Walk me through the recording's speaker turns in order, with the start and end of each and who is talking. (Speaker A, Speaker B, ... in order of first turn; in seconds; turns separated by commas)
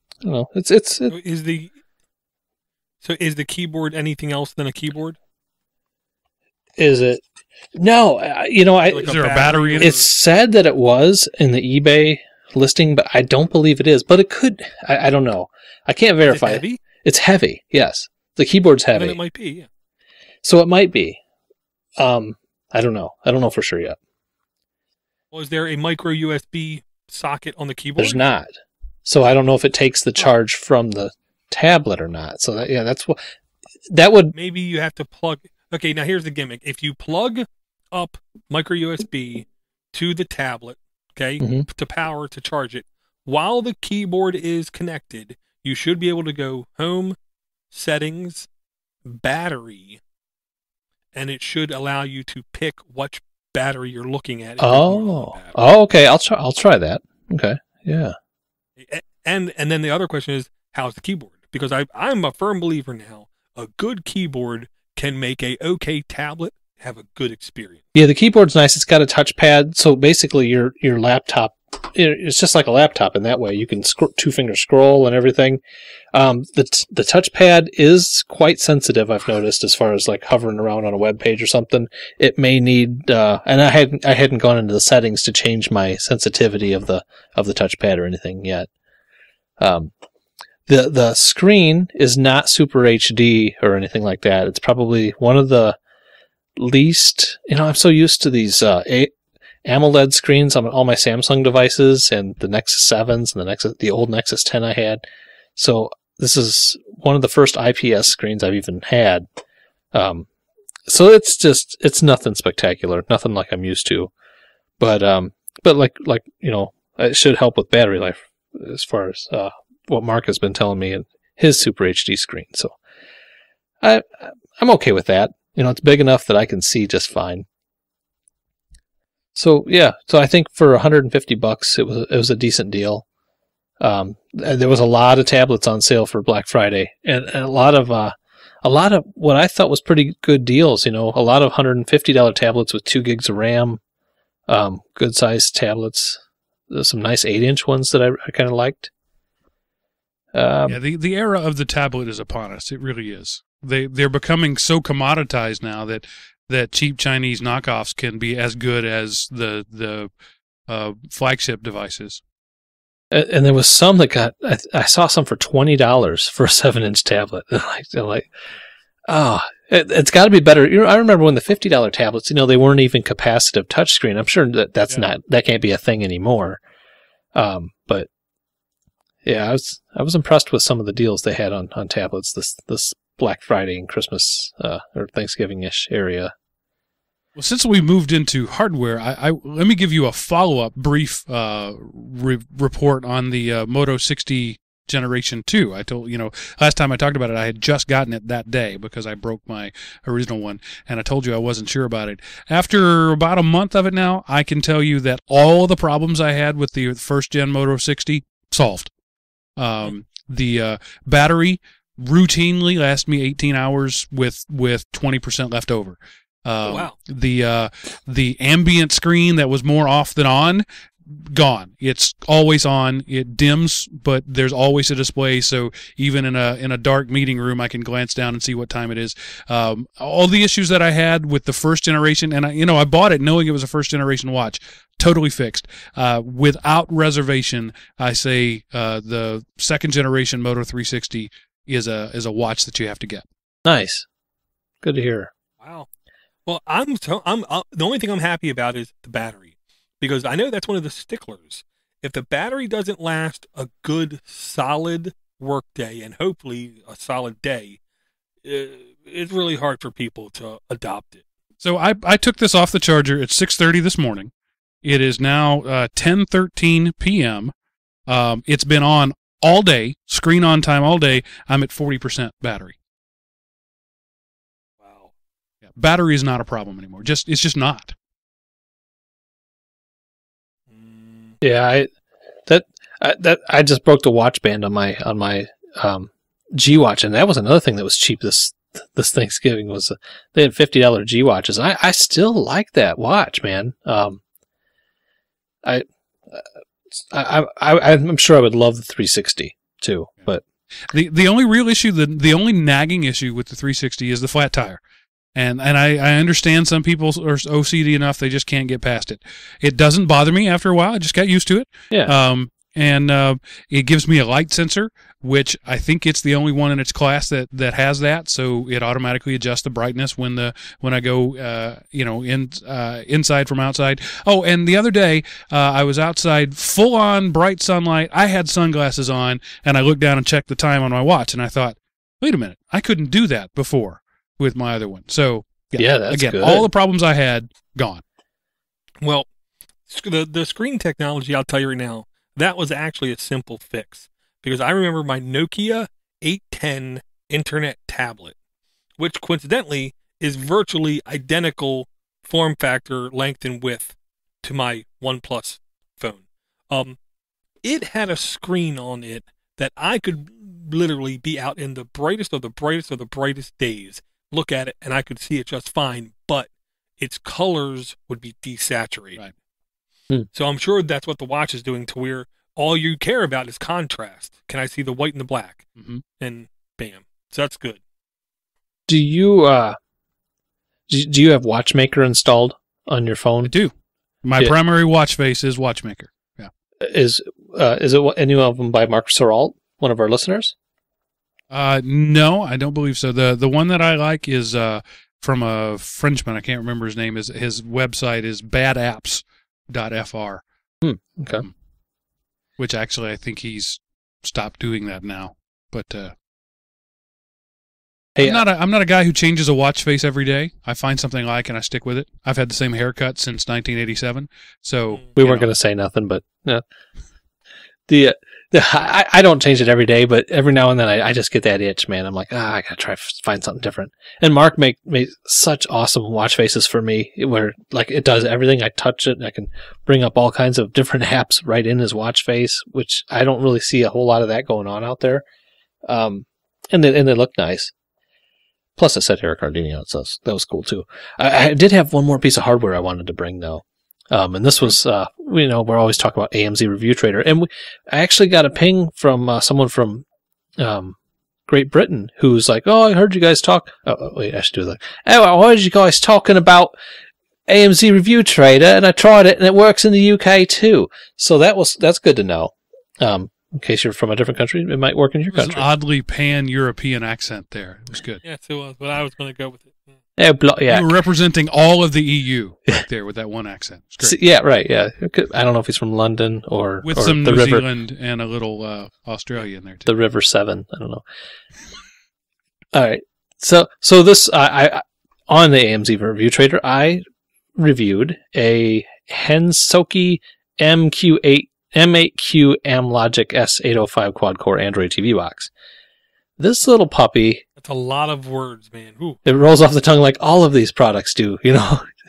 Speaker A: 0.2-1.2, Speaker B: 1.1-1.8, Speaker B: 3.0-5.2, Speaker A: 6.8-7.2, Speaker A: 7.7-9.2, Speaker B: 8.8-10.1, Speaker C: 9.0-10.0, Speaker A: 9.8-19.2, Speaker B: 16.3-16.8, Speaker B: 18.9-19.7, Speaker A: 20.4-21.2, Speaker A: 22.0-24.0, Speaker B: 25.3-28.2, Speaker A: 28.0-28.5, Speaker A: 29.1-33.2, Speaker A: 33.9-34.3, Speaker B: 34.3-47.2, Speaker A: 41.4-41.7, Speaker B: 47.7-48.5, Speaker B: 49.0-50.0, Speaker B: 51.1-55.6, Speaker A: 54.6-58.2, Speaker B: 58.8-67.8, Speaker A: 67.9-75.6, Speaker A: 76.1-88.7, Speaker A: 89.6-89.9, Speaker A: 90.7-95.8, Speaker A: 96.6-99.1, Speaker A: 99.7-105.0, Speaker A: 105.6-109.3, Speaker A: 109.9-110.3, Speaker A: 110.9-114.1, Speaker A: 114.8-122.8, Speaker A: 123.8-127.5, Speaker A: 129.3-133.1, Speaker A: 133.8-143.8, Speaker A: 144.5-148.9, Speaker A: 150.3-150.8, Speaker C: 150.7-160.1, Speaker C: 160.7-162.2, Speaker A: 163.1-168.3, Speaker A: 169.1-176.6, Speaker A: 177.3-178.1, Speaker A: 179.2-186.3, Speaker C: 187.4-208.9, Speaker C: 209.6-243.3, Speaker B: 216.6-216.9, Speaker A: 243.7-244.1, Speaker A: 244.8-245.3, Speaker B: 245.6-245.9, Speaker B: 246.5-257.8, Speaker B: 258.4-261.2, Speaker C: 261.6-264.3, Speaker C: 264.8-267.5, Speaker C: 268.1-272.8, Speaker B: 274.8-275.1, Speaker C: 275.8-277.9, Speaker B: 280.7-281.4, Speaker A: 281.4-281.9, Speaker A: 282.5-294.2, Speaker A: 295.6-300.4, Speaker C: 300.9-304.8, Speaker C: 305.4-338.0, Speaker A: 335.8-336.7, Speaker B: 339.0-339.3, Speaker B: 339.9-348.4, Speaker B: 349.0-357.0, Speaker B: 357.6-369.2, Speaker B: 370.3-375.7, Speaker C: 375.8-376.0, Speaker B: 376.2-377.8, Speaker A: 378.9-379.8, Speaker A: 380.9-383.5, Speaker C: 383.4-383.7, Speaker C: 384.2-386.5, Speaker A: 386.8-390.5, Speaker C: 391.5-400.4, Speaker A: 400.8-401.5, Speaker C: 402.6-406.1, Speaker A: 408.2-408.4, Speaker C: 408.2-415.5, Speaker A: 415.2-416.6, Speaker A: 417.9-435.2, Speaker A: 435.9-437.7, Speaker A: 438.8-450.1, Speaker A: 450.6-456.7, Speaker A: 457.5-465.6, Speaker C: 465.3-468.2, Speaker B: 468.2-470.0, Speaker A: 470.2-471.0, Speaker C: 470.7-474.2, Speaker A: 474.0-477.6, Speaker C: 476.8-479.9, Speaker A: 479.9-481.0, Speaker A: 482.7-487.0, Speaker A: 487.6-495.5, Speaker A: 496.4-497.4, Speaker B: 497.6-499.2, Speaker A: 499.2-501.9